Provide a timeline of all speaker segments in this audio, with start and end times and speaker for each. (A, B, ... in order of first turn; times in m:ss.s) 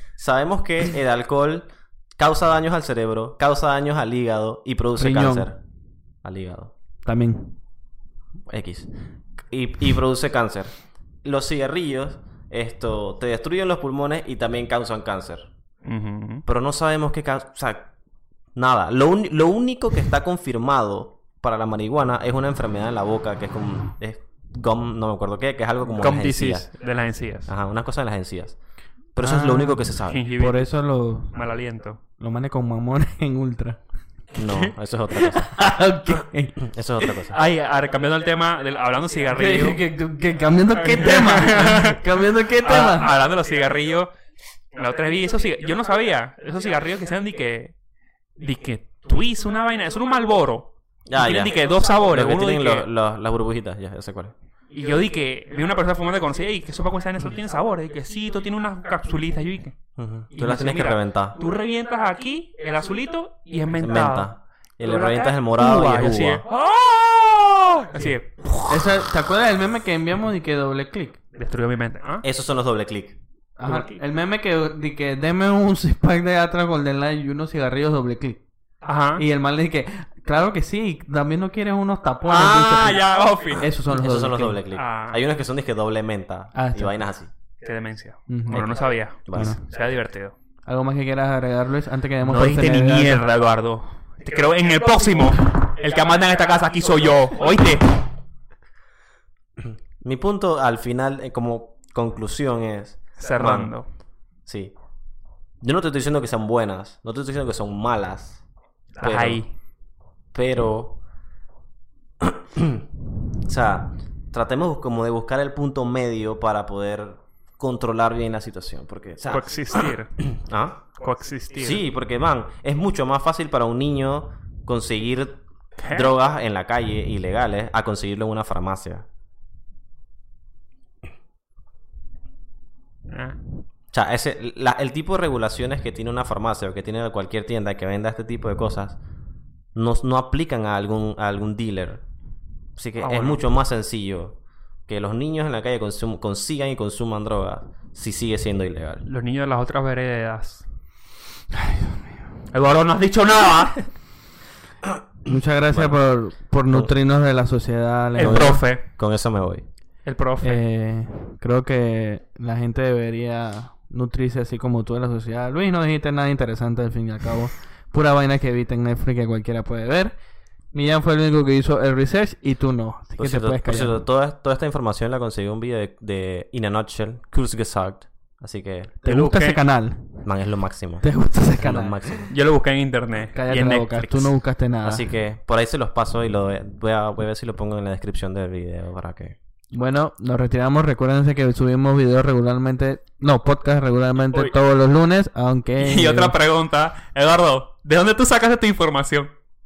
0:00.2-0:05.6 A
0:05.0-0:05.5 B
0:06.2-0:06.7 A
0:07.0-0:07.6 B
0:08.5-0:08.9 A
0:09.4-0:10.7 A
0:11.2-0:15.5 A
0:15.8-0:16.4 C
0:16.4-0:17.9 A
0:18.5-0:26.7 A
0:26.0-0:27.5 C
0:27.5-0:28.6 A
0:29.1-0:30.2 A
0:29.2-0:29.8 B
0:30.1-0:30.7 C
0:30.4-0:31.4 B
0:31.3-0:32.0 C
0:32.2-0:33.8 B
0:34.3-0:35.7 A
0:35.1-0:37.2 B
0:36.6-0:37.4 A
0:37.3-0:39.8 C
0:39.3-0:43.1 B
0:40.9-0:42.0 C
0:42.6-0:44.1 C
0:44.7-0:47.7 C
0:48.4-0:52.9 C
0:51.1-0:54.3 A
0:54.7-0:59.8 C
1:00.0-1:01.4 A
1:00.3-1:04.3 C
1:03.8-1:06.4 A
1:04.8-1:08.9 C
1:08.7-1:11.2 B
1:11.3-1:12.2 C
1:12.2-1:13.2 A
1:13.6-1:18.4 B
1:13.6-1:14.0 C
1:18.8-1:19.2 C
1:19.2-1:23.0 B
1:22.3-1:23.6 C
1:23.6-1:24.6 B
1:23.6-1:27.3 A
1:24.7-1:25.2 C
1:26.5-1:26.9 B
1:27.6-1:30.3 C
1:28.3-1:28.7 B
1:29.3-1:29.5 A
1:29.3-1:29.6 B
1:30.6-1:33.3 B
1:32.2-1:38.0 C
1:39.6-1:43.7 A
1:43.2-1:43.8 C
1:44.4-1:44.7 A
1:45.6-1:48.4 A
1:49.0-1:49.5 C
1:49.0-1:49.4 A
1:50.3-1:51.0 A
1:52.2-1:52.8 A
1:53.4-1:59.5 A
1:59.2-2:00.2 C
2:00.2-2:00.8 A
2:01.0-2:01.8 C
2:01.6-2:09.0 A
2:05.8-2:06.1 C
2:13.1-2:13.4 C
2:13.9-2:19.0 A
2:19.7-2:22.0 A
2:22.8-2:29.0 A
2:23.0-2:23.4 C
2:29.0-2:30.6 C
2:32.5-2:33.8 C
2:35.2-2:38.6 B
2:35.7-2:36.0 A
2:38.2-2:38.8 C
2:38.2-2:39.6 A
2:40.0-2:40.6 C
2:40.4-2:50.1 B
2:50.7-2:54.0 B
2:53.2-2:59.0 A
2:59.0-3:00.2 B
2:59.0-2:59.6 C
3:00.2-3:02.3 A
3:01.0-3:01.9 B
3:02.3-3:04.0 C
3:03.3-3:05.1 B
3:03.9-3:04.3 A
3:04.8-3:09.4 A
3:09.7-3:16.4 B
3:15.8-3:19.3 C